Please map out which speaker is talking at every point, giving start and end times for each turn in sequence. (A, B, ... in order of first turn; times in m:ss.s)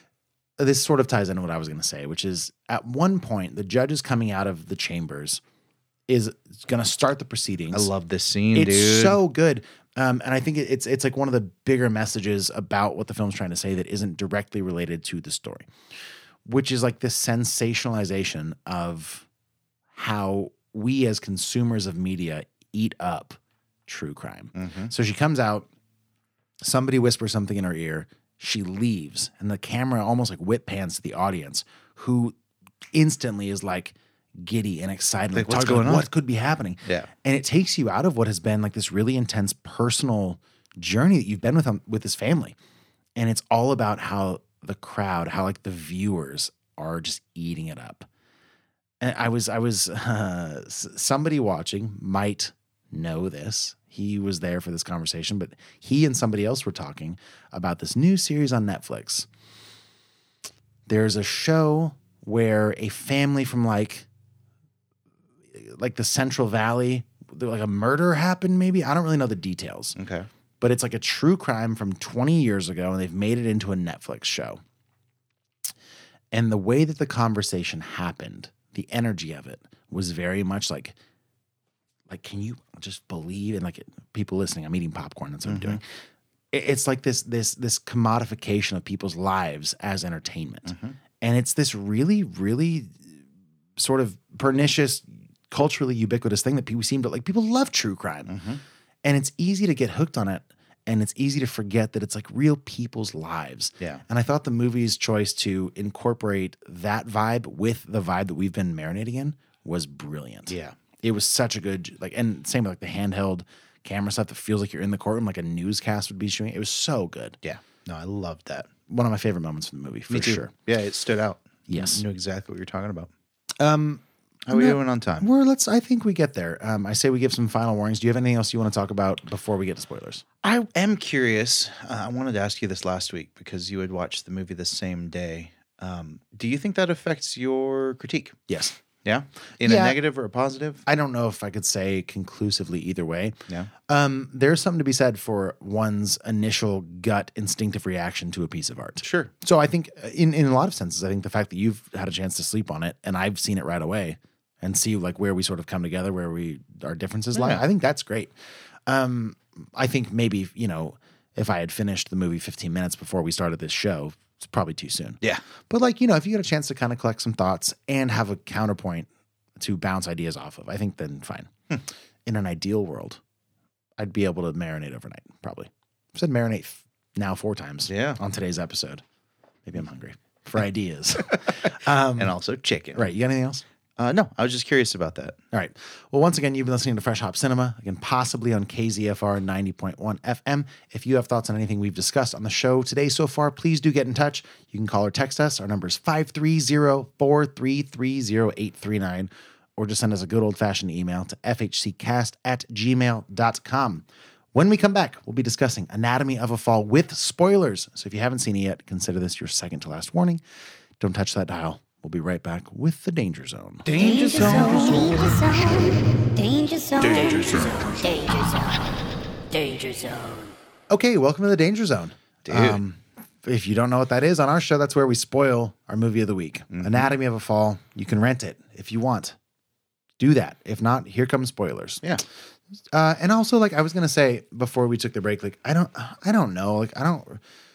0:00.6-0:05.4 A
0:06.1-0:07.9 A
0:07.7-0:09.2 B
0:08.5-0:15.7 A
0:16.4-0:19.2 A
0:19.9-0:25.7 A
0:24.5-0:24.9 B
0:26.6-0:32.3 A
0:32.9-0:42.6 A
0:35.3-0:36.1 B
0:36.8-0:37.1 B
0:43.2-0:48.1 A
0:49.0-0:59.3 A
1:00.9-1:04.0 A
1:05.5-1:10.0 A
1:10.0-1:10.3 B
1:10.6-1:14.6 A
1:16.3-1:21.0 A
1:22.1-1:25.8 A
1:25.4-1:25.8 B
1:26.5-1:33.2 A
1:30.6-1:31.0 B
1:33.8-1:38.4 A
1:38.3-1:38.6 B
1:39.0-1:57.4 A
1:50.5-1:50.8 B
1:57.4-1:58.7 B
1:58.9-2:00.5 A
2:00.1-2:03.1 B
2:01.7-2:02.0 A
2:03.6-2:10.2 A
2:04.5-2:05.3 B
2:10.4-2:18.4 B
2:18.5-2:18.8 A
2:19.0-2:20.8 B
2:19.6-2:20.0 A
2:20.8-2:38.3 A
2:29.0-2:29.3 B
2:37.3-2:37.6 B
2:38.8-2:51.5 A
2:52.2-2:53.2 A
2:54.0-2:59.0 A
2:57.9-2:58.2 B
2:59.6-3:02.3 A
3:02.2-3:03.1 B
3:02.9-3:03.6 A
3:04.0-3:05.4 B
3:05.5-3:30.4 A
3:31.0-3:35.2 A
3:33.8-3:35.0 B
3:33.9-3:39.0 C
3:37.1-3:37.6 B
3:39.5-3:40.5 C
3:40.9-3:49.4 A
3:42.4-3:42.8 B
3:46.7-3:47.1 B
3:50.2-3:52.0 A
3:52.9-3:57.4 A